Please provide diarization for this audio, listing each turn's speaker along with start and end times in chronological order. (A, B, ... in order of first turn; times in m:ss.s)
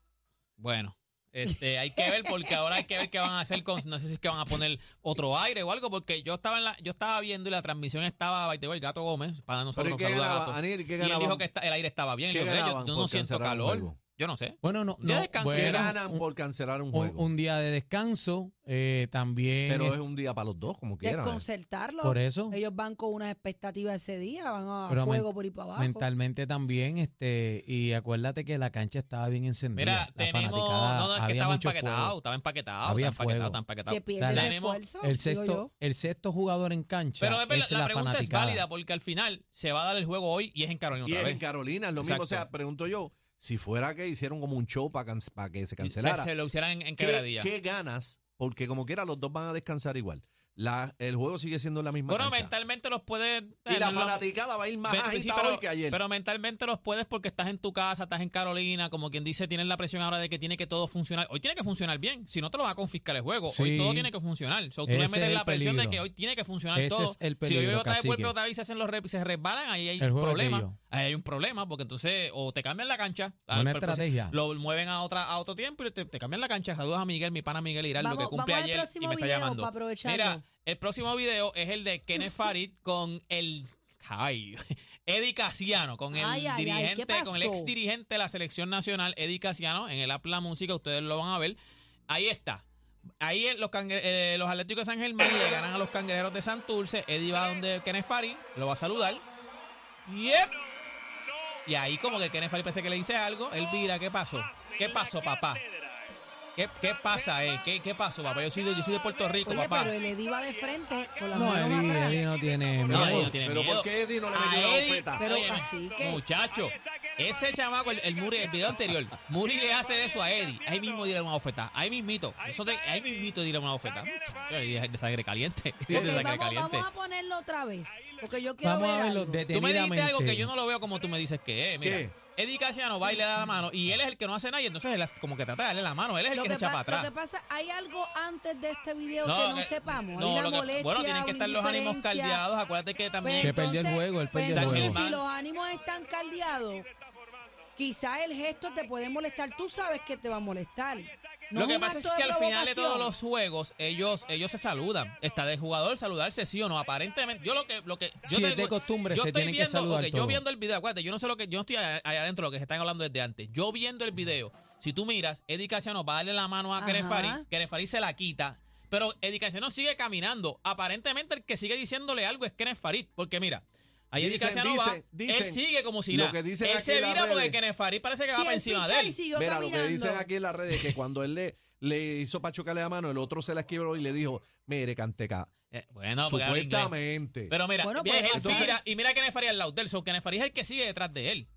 0:00.6-0:16.0 A
0:09.8-0:11.5 B
0:12.3-0:14.0 B
0:14.6-0:16.2 C
0:15.5-0:17.3 B
0:16.9-0:20.0 C
0:19.7-0:21.4 B
0:21.0-0:26.1 D
0:22.0-0:22.6 C
0:24.9-0:32.2 C
0:29.7-0:34.8 A
0:32.8-0:33.6 C
0:33.9-0:35.7 D
0:34.2-0:38.7 C
0:37.2-0:41.4 A
0:41.0-0:46.3 B
0:42.0-0:42.5 A
0:45.8-0:47.5 A
0:47.0-0:52.5 B
0:52.1-0:54.3 A
0:53.7-0:56.0 B
0:54.8-1:31.6 A
1:03.5-1:04.1 C
1:04.9-1:06.0 C
1:06.7-1:08.3 C
1:10.0-1:10.8 C
1:13.5-1:14.4 C
1:18.0-1:20.4 D
1:26.1-1:27.7 D
1:32.1-1:32.6 A
1:33.2-1:39.3 A
1:40.1-1:40.6 A
1:41.7-1:45.6 A
1:46.6-1:49.9 A
1:49.4-1:52.2 D
1:51.3-1:53.4 C
1:52.9-1:55.2 B
1:52.9-2:06.9 A
1:55.2-1:56.2 D
2:05.9-2:06.3 B
2:05.9-2:09.5 D
2:08.6-2:10.5 C
2:09.5-2:17.1 A
2:11.8-2:12.2 B
2:16.3-2:22.4 D
2:19.2-2:23.6 A
2:23.2-2:26.9 D
2:23.4-2:25.0 C
2:24.5-2:25.2 A
2:27.8-2:33.2 D
2:31.6-2:59.2 A
2:38.3-2:40.4 C
2:46.8-2:47.4 D
2:54.2-2:57.6 B
2:58.3-3:00.3 D
2:59.3-3:05.5 B
3:05.7-3:07.0 A
3:06.2-3:07.5 B
3:07.5-3:11.5 A
3:07.8-3:08.8 D
3:08.3-3:08.7 B